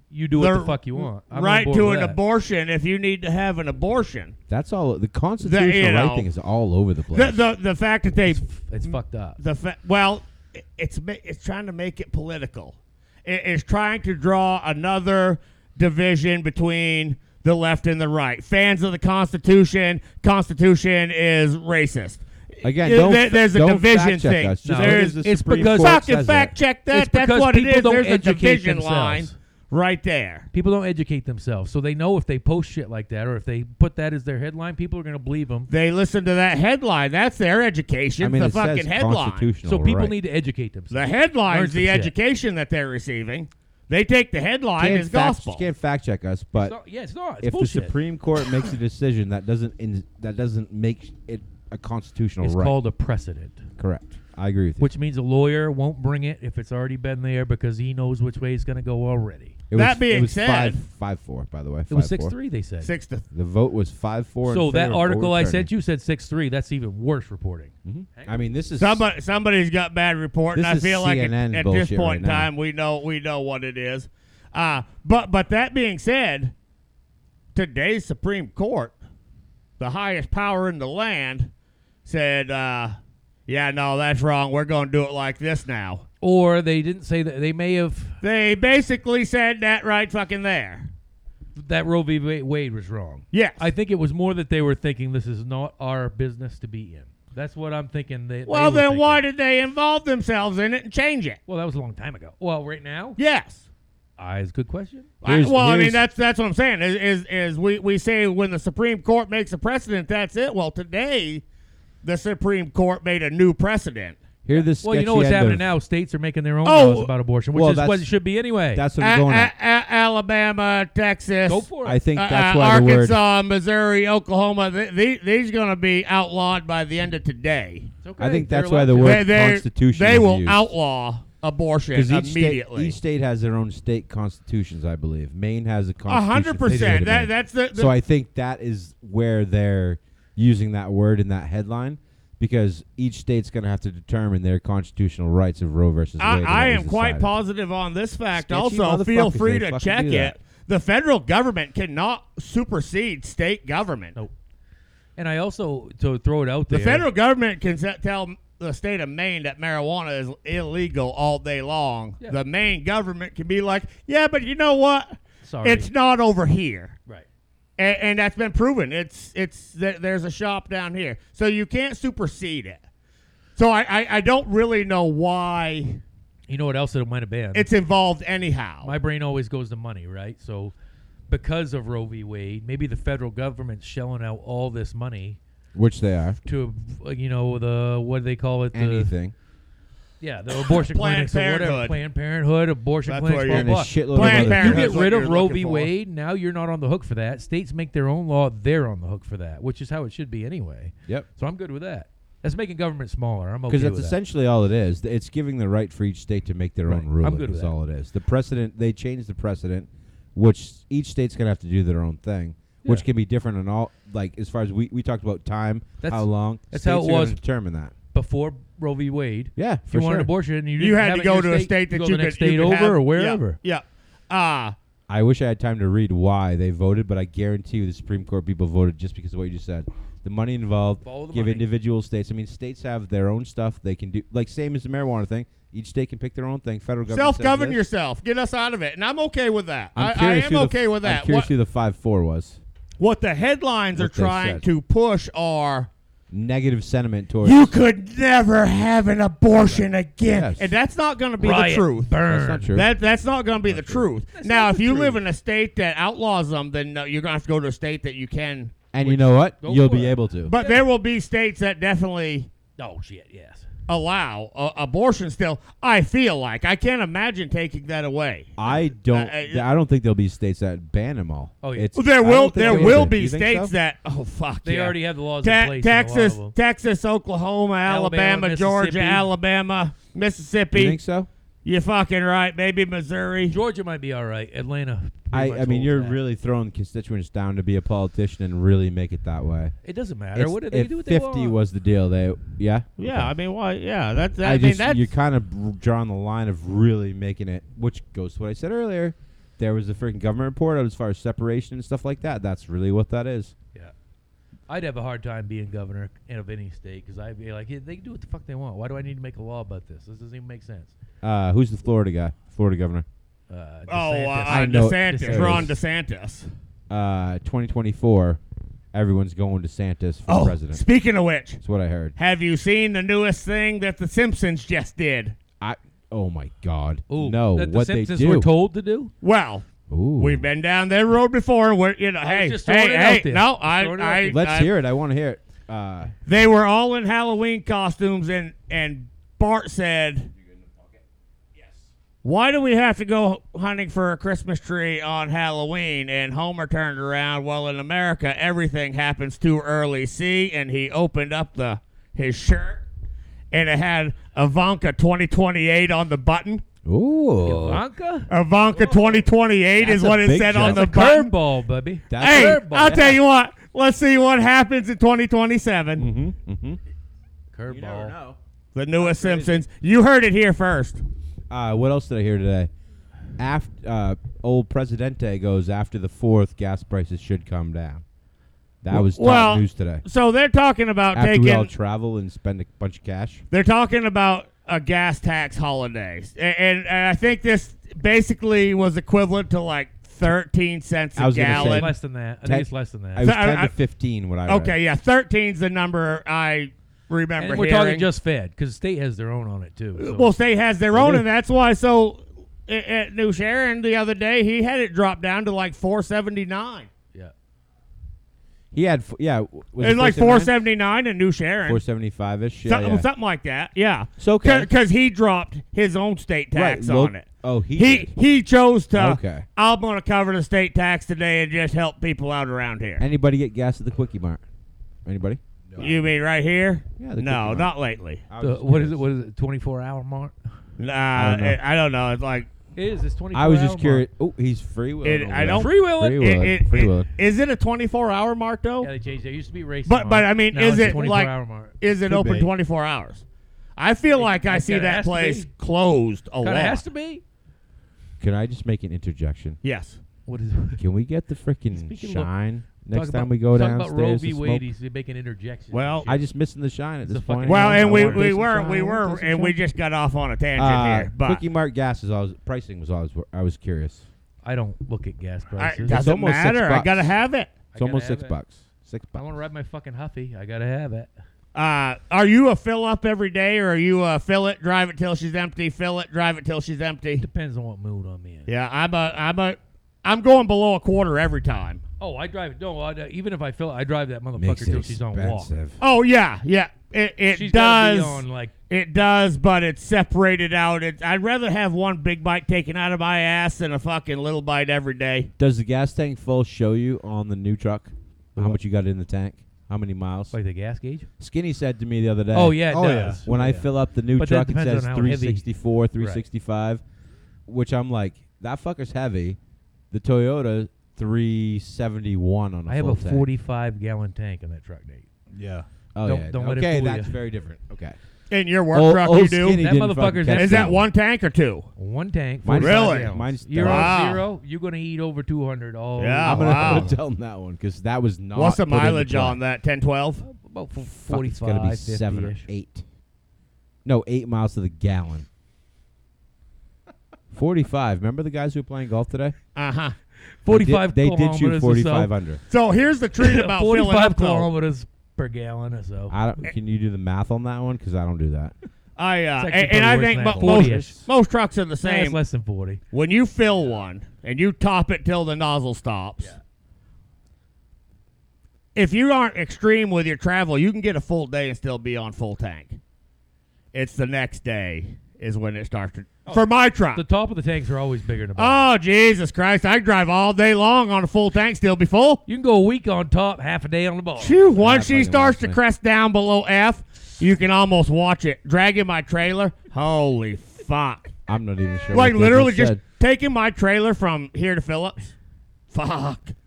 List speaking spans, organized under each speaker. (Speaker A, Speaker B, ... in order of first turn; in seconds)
Speaker A: 0.1-2.2, 8.3-9.4, 24.6-26.0, 26.9-29.4, 30.5-35.7, 39.6-42.1, 46.5-48.0, 52.4-53.6, 54.8-59.6, 61.9-62.9, 64.5-68.4, 86.2-88.2, 91.6-99.2, 101.5-103.2, 104.2-105.1, 114.5-118.8, 121.5-122.0, 128.0-129.3, 155.2-157.1, 165.4-165.9, 176.5-177.7, 178.8-180.7, 181.3-185.4, 186.4-189.1, 190.2-204.2, 206.9-207.7, 216.0-217.4, 218.1-223.6, 231.0-231.7, 251.4-252.7, 254.3-255.2, 259.0-260.8, 262.8-263.6, 271.6-271.9, 272.6-273.1, 274.6-276.5, 277.9-279.3, 283.5-286.2, 289.8-291.6, 304.7-310.9, 313.5-315.7, 327.1-329.1, 332.2-334.4, 357.4-358.3, 359.8-363.2, 367.5-368.1, 391.5-393.3, 397.4-400.3, 428.4-430.3, 432.8-434.1, 435.5-436.2, 438.8-441.7, 444.1-445.5, 446.4-447.2, 450.3-450.8, 451.7-452.3, 452.8-456.2, 457.1-458.9, 464.4-466.0, 467.7-468.4, 469.1-471.1, 477.2-478.5, 482.0-485.6, 487.3-488.5, 500.3-501.1, 502.3-503.3, 504.2-505.5, 506.0-506.2, 512.7-515.1, 516.0-517.2, 519.6-520.8, 521.8-527.0, 530.2-532.5, 540.4-542.1, 543.2-546.2, 549.4-551.1, 551.8-552.8, 566.2-568.6, 572.3-574.4
Speaker B: 0.4-4.3, 5.4-6.3, 7.1-8.5, 9.4-30.5, 35.7-39.5, 40.9-45.6, 59.7-60.8, 62.8-63.2, 68.8-76.5, 77.5-79.0, 79.8-81.5, 82.0-86.1, 88.2-90.9, 93.3-93.7, 98.5-101.4, 103.2-103.7, 105.2-111.4, 112.0-114.2, 116.6-117.1, 119.0-127.9, 129.0-132.9, 136.1-137.9, 146.2-154.2, 156.7-166.9, 167.8-172.8, 173.6-176.0, 177.5-178.9, 190.6-192.0, 193.1-195.9, 220.8-224.8, 237.1-241.5, 243.0-245.9, 247.4-252.2, 252.7-258.8, 260.5-262.5, 263.9-269.6, 271.9-281.0, 281.6-283.6, 293.0-295.1, 313.9-316.5, 320.3-321.6, 322.2-325.4, 329.2-329.7, 330.2-334.7, 336.2-340.3, 342.2-352.8, 353.5-356.6, 358.3-361.3, 362.2-366.1, 368.8-371.0, 378.9-381.7, 383.5-391.9, 393.2-393.7, 394.5-398.1, 400.0-406.9, 409.8-411.8, 412.6-423.0, 425.8-428.2, 430.8-432.5, 435.0-438.9, 439.9-443.2, 443.8-446.8, 449.6-450.0, 455.7-456.1, 457.4-461.4, 465.6-467.5, 471.5-477.2, 478.5-481.8, 485.8-495.3, 518.3-519.6, 520.3-521.7, 522.6-523.1, 523.6-524.2, 526.0-526.9, 528.3-530.2, 539.5-540.0, 542.5-544.5, 549.0-552.2, 552.9-556.3, 558.8-562.8, 563.7-567.0, 568.4-572.2, 574.2-581.2, 581.9-585.1, 585.7-586.3
Speaker C: 4.5-7.4, 22.6-26.5, 38.2-40.1, 44.8-46.8, 47.4-52.8, 53.8-54.9, 59.7-62.4, 63.3-65.7, 67.8-69.1, 70.5-72.5, 105.2-106.0, 114.5-115.7, 117.5-118.1, 118.7-119.5, 121.8-123.2, 128.2-130.7, 131.9-147.3, 148.3-150.4, 185.7-186.4, 188.7-189.3, 193.5-195.1, 203.7-217.9, 219.6-220.3, 225.1-237.8, 240.0-242.6, 244.0-244.6, 246.3-247.7, 250.3-250.8, 252.3-252.9, 253.7-254.1, 258.9-260.5, 268.6-273.7, 280.7-281.3, 285.3-289.7, 290.3-293.3, 294.4-303.5, 311.2-313.1, 314.5-315.8, 316.9-318.4, 318.9-320.8, 321.6-322.1, 325.6-328.5, 329.9-330.5, 334.3-336.1, 356.8-357.8, 358.8-359.2, 360.0-360.9, 362.1-362.7, 366.0-366.8, 367.7-368.4, 368.9-369.6, 371.5-372.7, 373.4-378.0, 378.8-380.0, 381.1-383.4, 391.2-394.8, 400.9-401.2, 408.7-410.5, 411.6-413.1, 414.2-414.7, 416.5-418.1, 418.9-419.5, 423.0-424.4, 425.0-425.4, 427.0-427.7, 428.3-429.0, 431.1-431.6, 433.3-437.1, 448.2-449.6, 450.8-454.7, 456.1-459.6, 460.6-464.1, 465.9-467.1, 467.8-469.2, 484.4-485.8, 495.4-500.4, 501.2-502.6, 503.2-506.8, 507.5-509.4, 509.9-513.2, 516.0-518.0, 518.7-520.8, 522.4-524.0, 526.2-529.4, 530.8-532.8, 533.8-535.2, 537.3-539.3, 540.5-542.4, 546.1-548.5, 550.4-551.1, 574.5-575.6, 581.2-582.8
Speaker D: 425.7-426.0, 442.1-442.5, 502.7-503.7, 515.3-515.7